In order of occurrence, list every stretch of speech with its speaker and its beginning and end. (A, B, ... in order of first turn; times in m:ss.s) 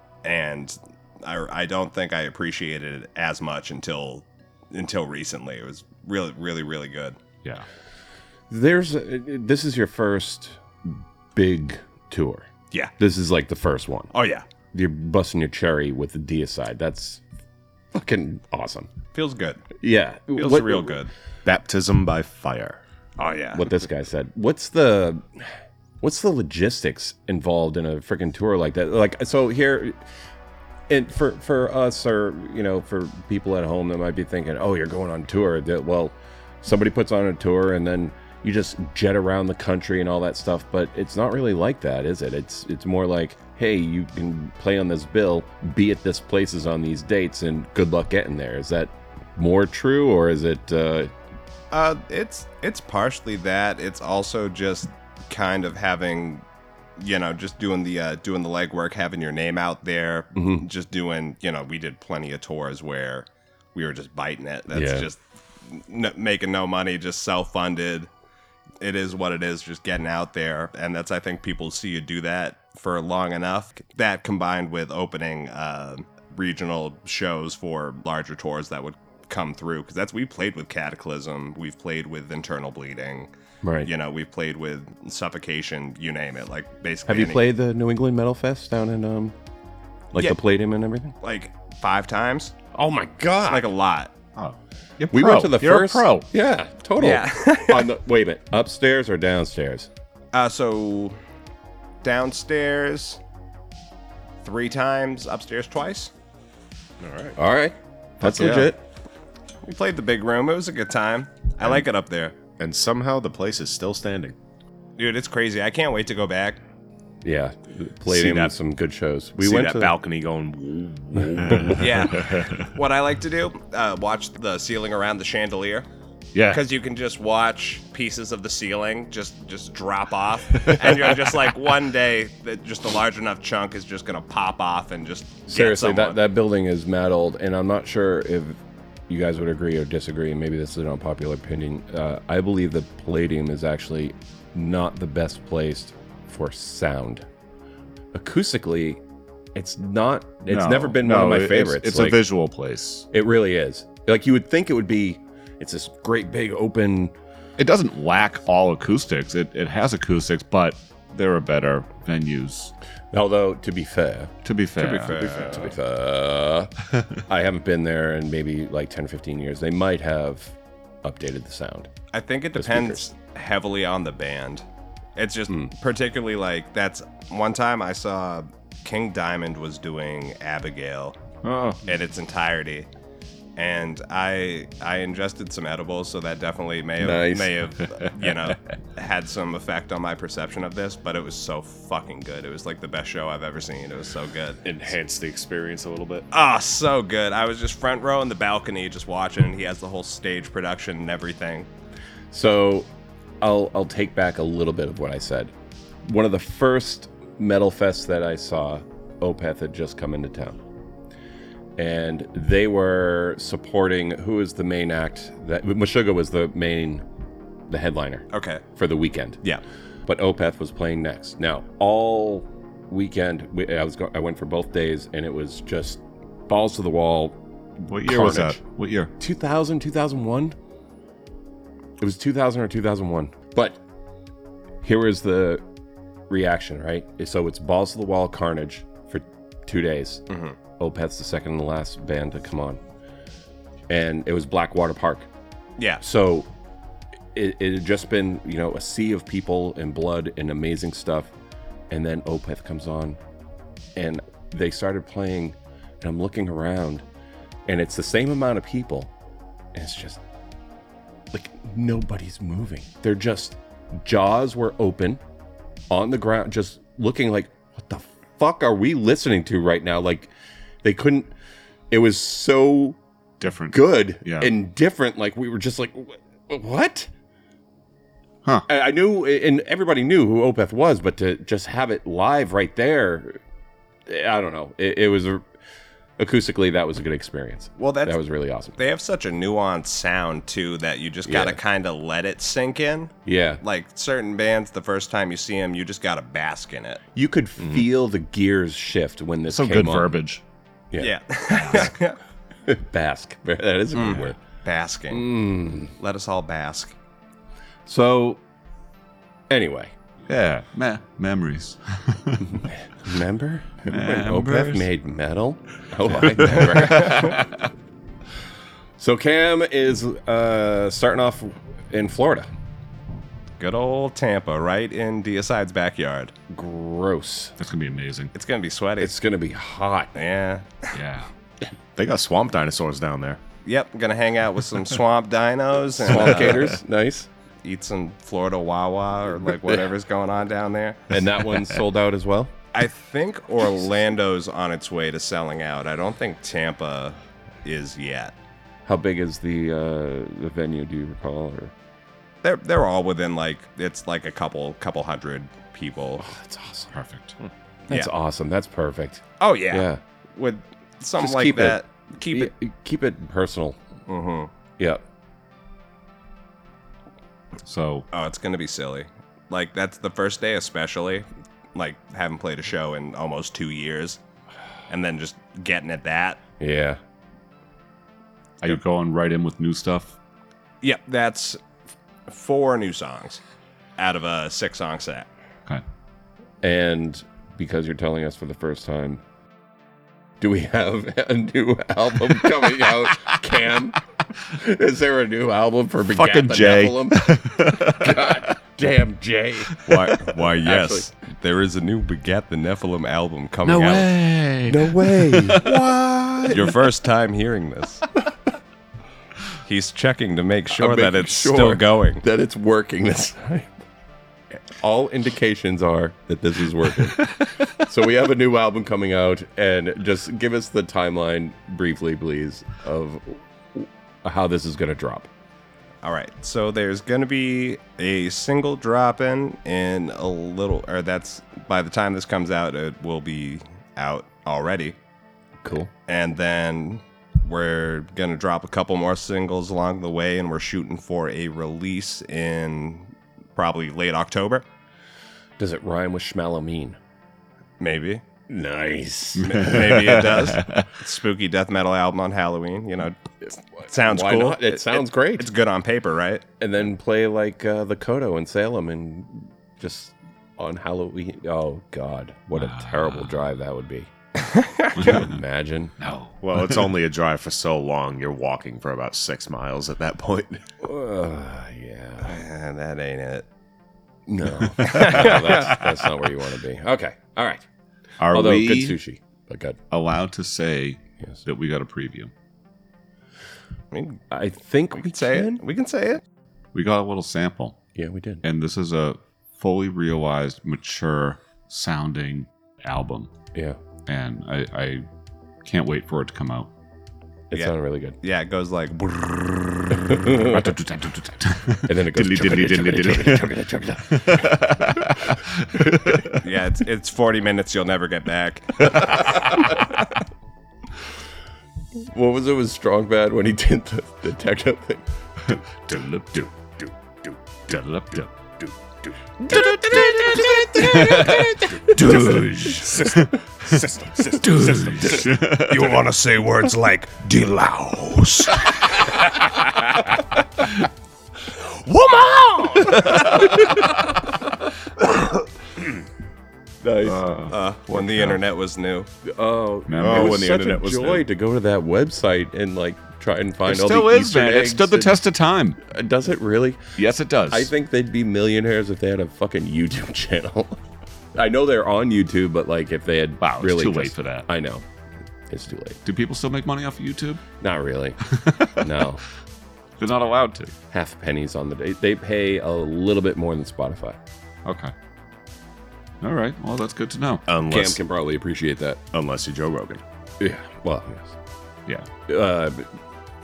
0:00.2-0:07.2 A
0:08.5-0:12.5 B
0:13.0-0:14.1 B
0:14.1-0:14.4 A
0:14.7-0:17.2 B
0:17.9-0:18.9 B
0:19.1-0:19.7 A
0:19.8-0:21.0 B
0:20.4-0:21.1 A
0:21.4-0:22.8 C
0:23.2-0:23.7 A
0:23.5-0:25.5 B
0:26.0-0:30.0 B
0:30.9-0:51.1 B
0:51.7-0:56.4 A
0:57.0-1:08.1 A
1:00.4-1:00.6 B
1:04.7-1:05.1 B
1:08.8-1:23.3 A
1:23.6-1:23.9 B
1:23.8-1:27.4 A
1:27.1-1:29.4 B
1:30.1-1:31.2 B
1:31.2-1:32.6 A
1:32.7-1:33.7 B
1:33.5-1:34.1 A
1:34.4-1:36.3 D
1:35.1-1:39.9 B
1:37.0-1:37.9 A
1:40.3-1:41.2 A
1:42.0-1:43.2 A
1:44.4-1:46.1 A
1:47.0-1:47.4 C
1:47.4-1:48.8 B
1:48.2-1:48.7 D
1:49.6-1:52.4 A
1:52.6-1:54.4 C
1:55.0-1:56.6 A
1:57.2-1:59.9 B
1:58.1-1:58.5 A
1:59.4-2:02.1 C
1:59.5-1:59.8 A
2:01.4-2:01.8 B
2:01.7-2:05.9 A
2:02.3-2:02.6 D
2:06.3-2:06.6 D
2:06.5-2:16.2 A
2:15.5-2:27.3 B
2:28.1-2:29.0 B
2:29.6-2:32.3 B
2:30.5-2:33.1 D
2:33.1-2:37.1 B
2:37.6-2:42.7 D
2:43.1-2:44.3 B
2:44.4-2:45.2 D
2:44.9-2:45.7 C
2:45.0-2:45.7 A
2:45.1-2:46.7 B
2:47.2-2:51.9 B
2:52.1-2:54.6 A
2:52.6-2:53.0 B
2:55.2-3:01.2 A
3:01.4-3:01.8 D
3:01.8-3:02.9 A
3:03.6-3:14.6 A
3:07.0-3:07.6 B
3:14.6-3:16.3 C
3:16.3-3:21.7 A
3:22.3-3:22.9 B
3:23.4-3:25.5 B
3:26.0-3:30.6 B
3:31.8-3:37.0 B
3:37.7-3:39.4 B
3:38.3-3:38.6 A
3:40.1-3:48.6 B
3:47.8-3:49.1 D
3:49.2-3:50.6 B
3:52.0-3:53.8 B
3:54.8-3:55.6 B
3:56.3-4:00.2 B
4:00.3-4:00.6 A
4:00.8-4:02.8 B
4:03.9-4:05.3 B
4:06.0-4:06.5 B
4:07.3-4:11.3 B
4:11.9-4:13.2 B
4:14.0-4:17.0 B
4:17.7-4:19.1 B
4:19.7-4:20.2 B
4:21.3-4:25.2 B
4:25.9-4:30.3 B
4:30.8-4:31.3 B
4:31.9-4:33.0 B
4:33.4-4:34.5 D
4:33.7-4:37.1 B
4:38.7-4:43.4 B
4:44.1-4:45.4 B
4:46.2-4:48.8 B
4:47.8-4:48.2 A
4:48.8-4:57.0 A
4:51.2-4:51.6 B
4:53.2-4:53.6 B
4:57.2-5:00.2 B
4:59.5-5:00.4 D
5:01.0-5:02.2 A
5:01.5-5:01.9 D
5:02.7-5:04.4 B
5:03.9-5:05.3 A
5:05.1-5:05.9 B
5:06.0-5:06.9 A
5:07.9-5:08.4 B
5:09.5-5:09.9 B
5:10.3-5:12.7 D
5:12.6-5:17.4 B
5:13.9-5:14.9 D
5:16.4-5:17.6 D
5:16.8-5:17.3 A
5:19.0-5:22.5 B
5:23.6-5:26.3 A
5:26.5-5:27.6 B
5:27.6-5:28.3 D
5:28.4-5:29.1 A
5:29.0-5:30.1 B
5:30.2-5:31.0 A
5:30.9-5:31.3 D
5:32.0-5:33.4 C
5:33.6-5:36.7 A
5:36.0-5:37.3 B
5:37.6-5:41.2 A
5:41.1-5:42.5 B
5:42.7-5:48.3 A
5:48.9-5:51.7 B
5:52.4-5:56.3 A
5:56.2-5:56.9 B
5:56.9-5:57.4 D
5:57.9-6:00.0 B
5:59.4-6:02.5 A
6:01.2-6:03.8 B
6:04.1-6:04.5 A
6:04.8-6:05.0 B
6:07.6-6:08.1 D
6:08.1-6:14.2 A
6:14.9-6:16.4 A
6:16.6-6:17.0 B
6:18.6-6:20.2 D
6:20.8-6:21.6 A
6:22.3-6:23.4 A
6:24.0-6:25.3 A
6:26.6-6:29.2 B
6:30.4-6:41.1 B
6:36.0-6:38.6 D
6:39.9-6:44.2 A
6:39.9-6:40.2 D
6:43.6-6:46.8 D
6:44.7-6:45.7 B
6:46.5-6:48.0 A
6:49.6-6:52.2 A
6:50.7-6:53.7 B
6:54.7-7:05.3 B
7:06.0-7:15.0 A
7:15.6-7:15.9 B
7:16.1-7:24.6 A
7:25.6-7:27.0 B
7:27.8-7:28.2 A
7:28.5-7:29.7 B
7:29.4-7:30.9 D
7:29.4-7:33.2 A
7:33.4-7:35.5 B
7:33.8-7:36.4 A
7:36.6-7:44.1 B
7:42.6-7:43.4 D
7:44.4-7:45.2 A
7:45.0-7:45.4 D
7:45.0-7:46.0 B
7:46.0-7:46.9 D
7:46.4-7:50.6 C
7:50.8-7:52.4 B
7:52.2-7:53.5 A
7:54.3-7:57.7 B
7:54.8-7:55.8 A
7:58.2-7:59.0 D
7:58.3-7:59.8 B
7:59.9-8:02.3 D
8:03.9-8:04.2 A
8:04.3-8:05.6 B
8:05.0-8:06.2 A
8:06.7-8:07.8 D
8:08.0-8:08.4 B
8:08.4-8:13.3 D
8:14.1-8:15.1 D
8:15.6-8:16.7 D
8:17.5-8:18.2 B
8:17.5-8:20.2 A
8:20.0-8:20.7 B
8:20.3-8:26.4 D
8:21.8-8:25.3 B
8:26.4-8:29.8 A
8:29.0-8:29.8 B
8:32.0-8:35.0 B
8:35.4-8:36.5 D
8:37.7-8:38.3 D
8:39.4-8:42.7 B
8:39.5-8:43.8 D
8:42.0-8:42.8 A
8:42.8-8:45.3 C
8:44.4-8:46.0 D
8:45.6-8:49.4 A
8:51.9-8:54.0 B
8:52.3-8:53.4 A
8:56.8-8:57.5 B
8:57.1-8:58.4 D
8:57.5-8:59.1 A
8:59.2-9:05.2 B
8:59.9-9:00.5 D
9:00.0-9:01.3 C
9:03.6-9:05.8 D
9:05.8-9:07.0 B
9:07.0-9:07.7 D
9:07.5-9:10.8 B
9:11.4-9:14.8 B
9:13.4-9:14.5 D
9:15.5-9:16.0 B
9:16.0-9:17.4 D
9:17.6-9:18.2 B
9:18.2-9:19.0 D
9:18.7-9:19.2 B
9:20.0-9:20.7 D
9:20.9-9:24.2 B
9:24.6-9:24.9 D
9:26.2-9:27.4 D
9:27.5-9:28.0 C
9:27.7-9:29.0 B
9:29.1-9:30.0 C
9:30.4-9:31.4 B
9:32.3-9:32.9 B